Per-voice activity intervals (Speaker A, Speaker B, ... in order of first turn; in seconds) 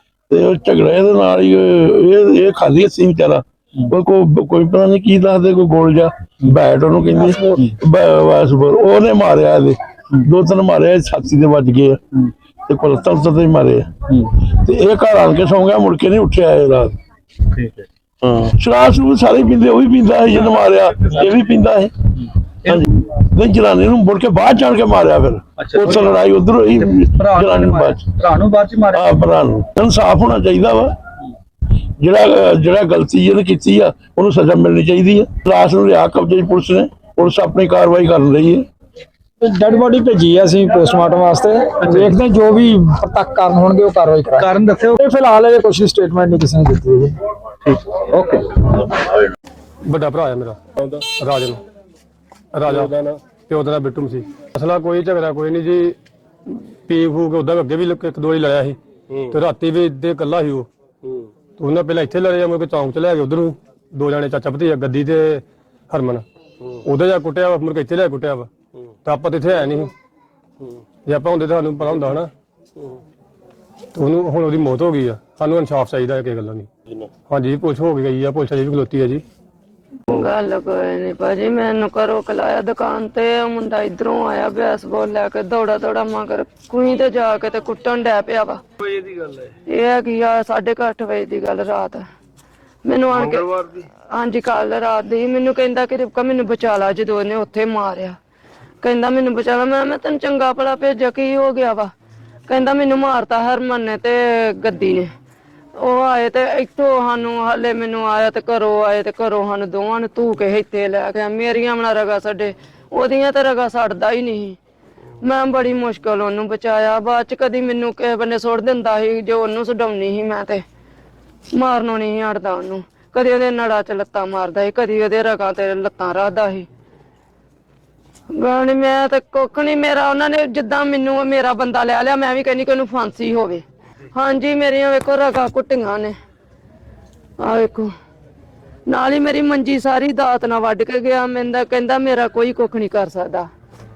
Speaker A: 0.3-16.9, 18.2-28.1, 28.9-30.9, 32.0-38.6
Speaker B: 17.5-17.8, 20.4-21.4, 25.6-26.3, 26.8-29.1, 41.8-42.1, 44.4-45.0, 47.6-49.2
Speaker C: 39.4-47.2
Speaker D: 49.8-51.6, 52.5-56.0, 56.5-60.7, 61.6-68.5, 69.0-69.9, 71.0-72.3, 73.9-76.7, 77.3-79.2
Speaker E: 80.1-88.6, 89.7-92.0, 92.8-98.2, 98.8-101.9, 102.5-105.1, 105.8-114.6, 115.2-120.6, 121.5-126.7, 128.3-136.1, 137.4-137.9, 138.9-143.5